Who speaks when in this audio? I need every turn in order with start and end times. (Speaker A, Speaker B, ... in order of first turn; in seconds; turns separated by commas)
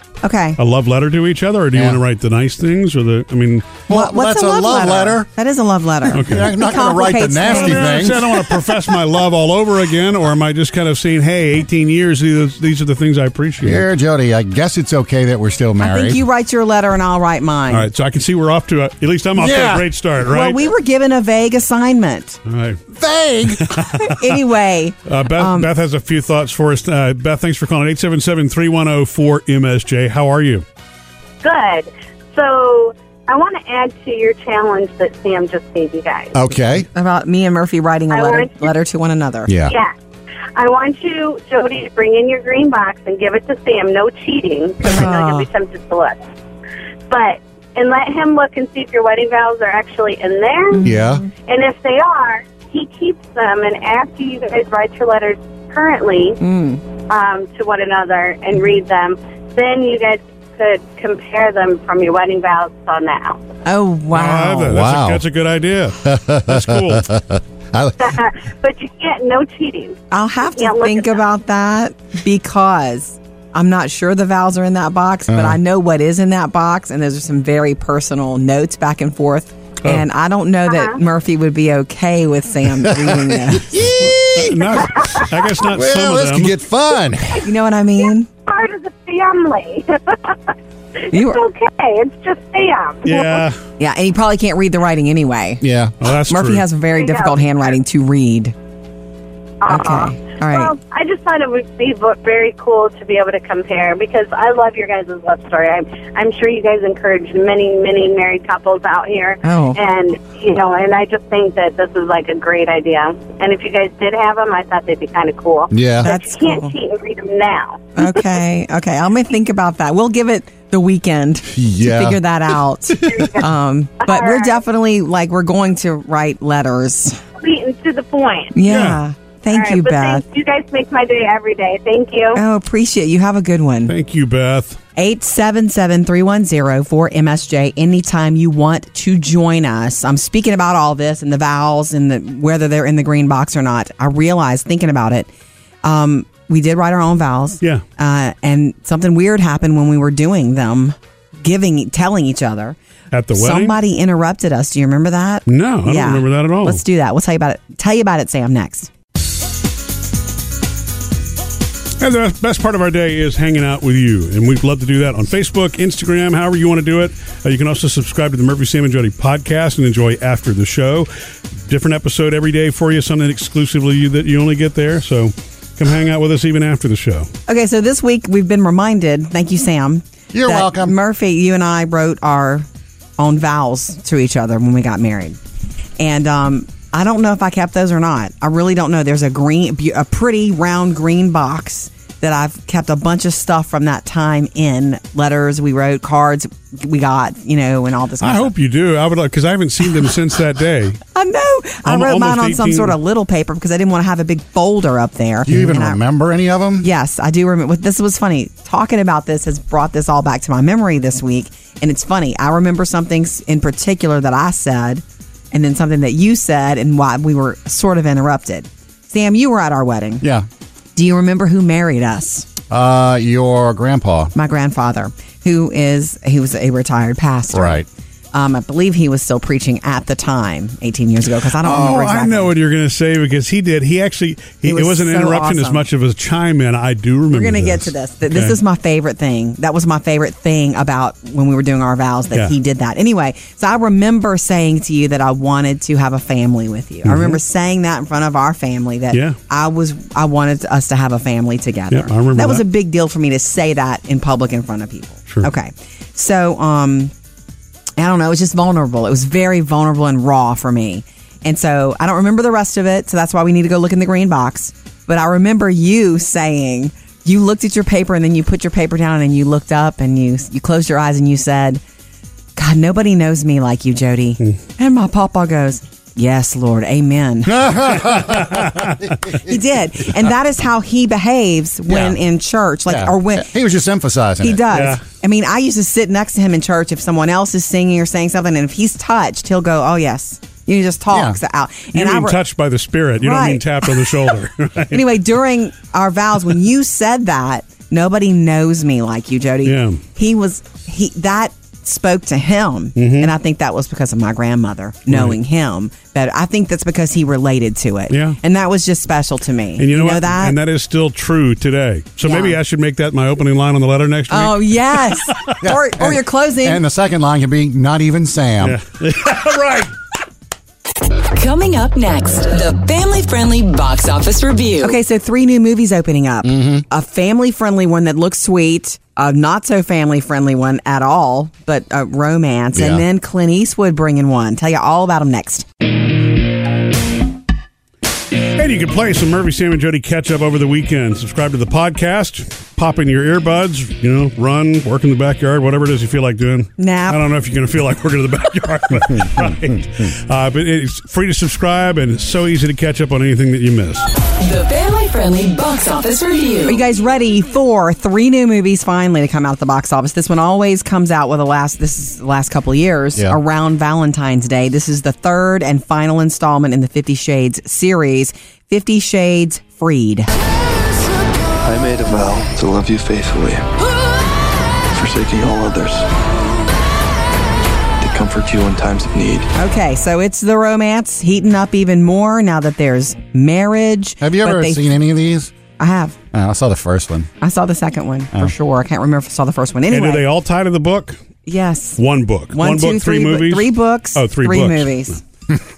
Speaker A: 0.2-0.6, Speaker B: 0.6-3.8, Speaker C: 1.7-2.0, Speaker C: 3.9-5.3, Speaker A: 3.9-8.1, Speaker C: 6.1-8.4, Speaker B: 6.1-6.5, Speaker B: 7.5-13.8, Speaker C: 13.6-16.2, Speaker A: 15.8-17.9, Speaker B: 17.7-20.6, Speaker C: 19.4-19.9, Speaker A: 20.2-22.4, Speaker B: 22.5-22.8, Speaker C: 22.9-23.8, Speaker B: 23.6-24.1, Speaker A: 24.0-25.7, Speaker B: 25.1-30.6, Speaker D: 31.4-36.4, Speaker C: 36.3-36.9, Speaker A: 36.9-39.5, Speaker D: 38.1-38.7, Speaker C: 39.5-39.7, Speaker D: 39.6-39.9, Speaker D: 40.5-46.2, Speaker A: 44.9-45.5, Speaker D: 47.1-50.8, Speaker A: 50.7-51.2, Speaker C: 50.8-51.2, Speaker D: 51.5-56.4, Speaker A: 56.4-56.8, Speaker D: 57.1-63.4, Speaker A: 63.6-64.7, Speaker B: 64.1-67.0, Speaker C: 64.7-65.2, Speaker C: 66.0-68.2, Speaker D: 68.0-70.0, Speaker A: 70.1-83.8, Speaker D: 70.5-71.2, Speaker C: 75.3-75.6, Speaker D: 80.7-81.0, Speaker C: 82.8-87.4, Speaker B: 84.0-86.5, Speaker A: 87.4-88.3, Speaker D: 88.5-90.4, Speaker A: 91.1-91.4, Speaker D: 91.1-93.4, Speaker B: 93.0-93.6, Speaker A: 93.8-95.6, Speaker C: 95.6-95.9, Speaker B: 96.0-96.6, Speaker A: 96.3-98.5, Speaker D: 96.9-97.4, Speaker D: 99.6-118.2, Speaker A: 99.7-100.8, Speaker A: 109.4-109.8, Speaker C: 115.7-116.1, Speaker A: 116.0-116.7, Speaker A: 118.0-127.2, Speaker C: 121.5-122.2, Speaker D: 123.0-123.5, Speaker D: 124.0-124.6, Speaker D: 127.4-128.6, Speaker A: 128.5-130.2, Speaker B: 128.7-129.0, Speaker D: 129.5-132.4, Speaker A: 132.3-133.9, Speaker B: 133.9-134.8, Speaker A: 135.0-145.3, Speaker A: 145.8-152.8, Speaker B: 153.1-153.8, Speaker A: 153.3-158.9, Speaker B: 155.5-156.8, Speaker B: 162.0-171.1, Speaker B: 171.7-177.3, Speaker A: 177.5-182.7, Speaker C: 180.3-180.9, Speaker A: 183.2-185.4, Speaker A: 186.0-198.5, Speaker B: 198.2-201.0, Speaker A: 201.1-206.0, Speaker B: 201.8-203.0, Speaker C: 205.4-206.9, Speaker A: 206.8-220.2, Speaker A: 220.9-222.5, Speaker C: 222.7-224.3, Speaker A: 224.3-232.5, Speaker C: 227.5-227.9, Speaker B: 231.6-238.6, Speaker A: 234.6-235.8, Speaker A: 237.3-257.1, Speaker B: 247.1-247.4, Speaker B: 249.1-249.4, Speaker B: 251.9-252.6, Speaker A: 258.0-271.8, Speaker A: 272.6-277.8, Speaker C: 277.4-279.5, Speaker B: 278.1-279.0, Speaker A: 279.4-283.5, Speaker C: 281.9-282.2, Speaker C: 282.9-284.7, Speaker A: 284.4-292.4, Speaker B: 284.7-285.0, Speaker C: 291.1-291.4, Speaker B: 291.9-295.0, Speaker A: 293.2-294.0, Speaker A: 294.9-310.6, Speaker B: 299.6-300.0, Speaker B: 303.0-303.3, Speaker B: 305.1-305.4, Speaker B: 308.1-308.4, Speaker B: 309.8-315.5, Speaker A: 312.2-312.6, Speaker A: 314.3-316.8, Speaker C: 315.6-318.8, Speaker B: 318.6-319.9, Speaker E: 321.3-325.0, Speaker A: 324.8-335.6, Speaker C: 326.4-326.8, Speaker C: 332.7-333.0, Speaker B: 338.6-354.1, Speaker A: 346.8-347.2, Speaker E: 354.4-356.8, Speaker A: 356.7-370.3, Speaker F: 371.6-373.7, Speaker F: 374.9-376.1, Speaker F: 378.0-379.5, Speaker A: 379.5-384.9, Speaker C: 384.2-385.5, Speaker A: 385.8-386.1, Speaker C: 386.3-387.3, Speaker A: 387.4-390.2, Speaker B: 389.9-391.2, Speaker A: 391.5-392.0, Speaker B: 392.0-395.0, Speaker A: 392.5-395.2